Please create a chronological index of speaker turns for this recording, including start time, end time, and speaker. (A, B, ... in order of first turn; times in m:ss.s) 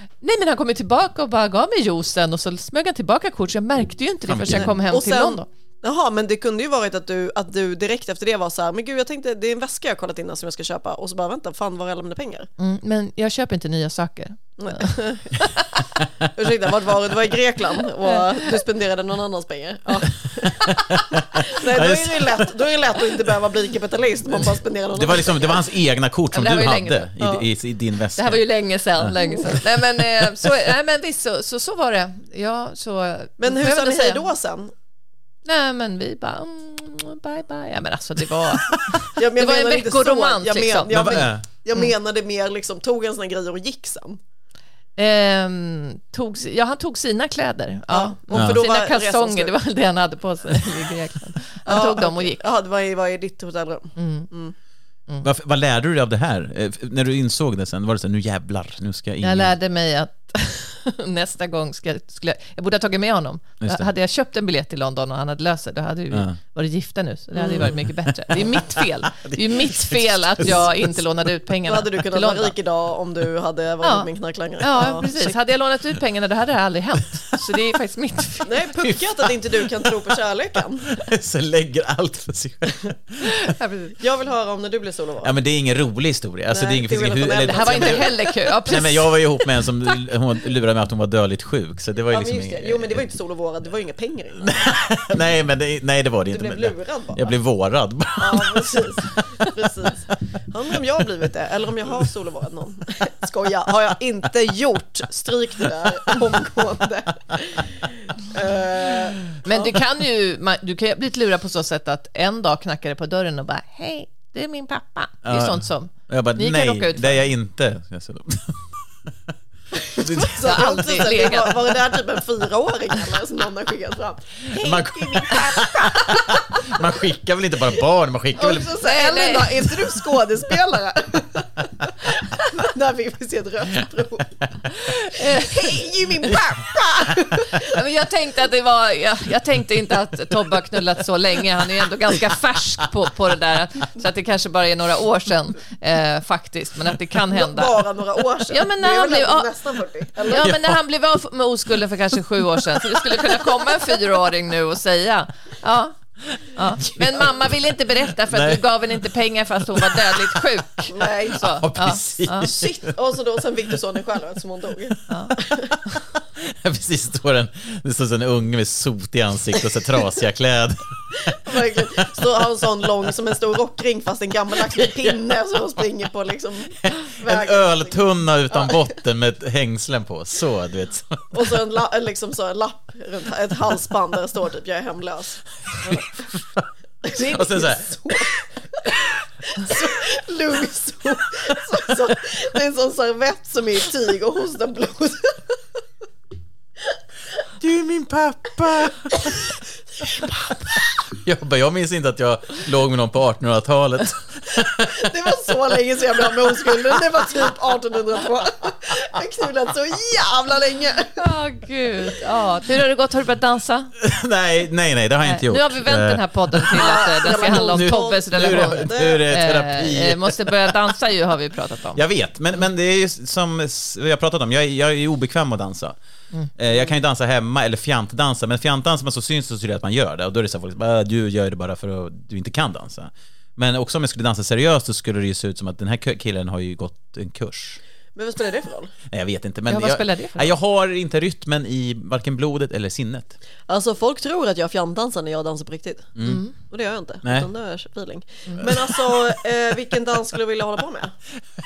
0:00.2-0:05.5 A
0:04.3-0:04.7 B
0:04.5-0:12.5 C
0:12.6-0:14.9 A
0:14.6-0:15.4 C
0:16.4-0:25.6 C
0:18.0-0:18.5 A
0:20.6-0:22.5 B
0:24.9-0:28.4 B
0:26.3-0:27.1 A
0:27.2-0:27.4 C
0:28.2-0:34.2 A
0:33.4-0:34.7 C
0:35.4-0:41.9 A
0:39.2-0:44.2 C
0:40.9-0:41.4 B
0:45.0-0:52.5 A
0:47.9-0:49.5 C
0:51.6-0:54.5 C
0:54.0-0:54.3 A
0:55.2-0:59.5 B
0:59.2-1:12.5 A
1:06.1-1:06.4 B
1:07.4-1:07.7 C
1:08.3-1:08.7 B
1:09.2-1:10.7 B
1:11.6-1:15.4 C
1:13.8-1:14.1 A
1:14.6-1:18.6 A
1:18.4-1:21.0 C
1:21.0-1:23.0 B
1:23.2-1:24.0 A
1:24.0-1:25.3 C
1:25.2-1:33.1 B
1:26.5-1:28.8 C
1:27.5-1:29.2 A
1:32.1-1:34.5 C
1:34.4-1:39.2 B
1:36.3-1:37.3 C
1:38.2-1:49.7 C
1:49.4-1:57.2 A
1:55.2-1:58.6 B
1:59.9-2:06.8 C
2:00.0-2:00.6 B
2:00.4-2:01.8 A
2:04.6-2:08.7 B
2:08.4-2:14.4 C
2:08.8-2:09.7 A
2:14.9-2:15.8 A
2:15.3-2:17.6 C
2:17.6-2:27.7 A
2:27.3-2:30.5 C
2:28.5-2:29.6 A
2:30.2-2:36.0 A
2:30.4-2:30.8 B
2:36.5-2:42.5 A
2:36.8-2:37.3 B
2:38.3-2:38.6 B
2:39.7-2:40.3 B
2:40.9-2:41.6 C
2:41.4-2:42.9 B
2:42.4-2:45.7 C
2:46.4-2:52.0 B
2:51.2-2:58.0 C
2:54.7-2:55.2 B
2:56.8-3:01.2 B
3:01.3-3:06.1 C
3:05.8-3:08.2 B
3:07.0-3:08.9 C
3:09.5-3:15.6 C
3:17.6-3:25.1 B
3:24.9-3:31.2 C
3:26.5-3:26.7 B
3:31.2-3:33.9 A
3:34.0-3:40.8 B
3:35.2-3:42.0 A
3:36.7-3:39.2 C
3:41.9-3:46.0 B
3:46.6-3:57.8 B
3:58.1-3:58.9 C
3:59.1-4:03.4 B
3:59.7-4:00.5 A
4:03.7-4:06.1 C
4:06.2-4:06.4 B
4:06.2-4:06.5 A
4:06.6-4:11.1 C
4:07.2-4:07.5 B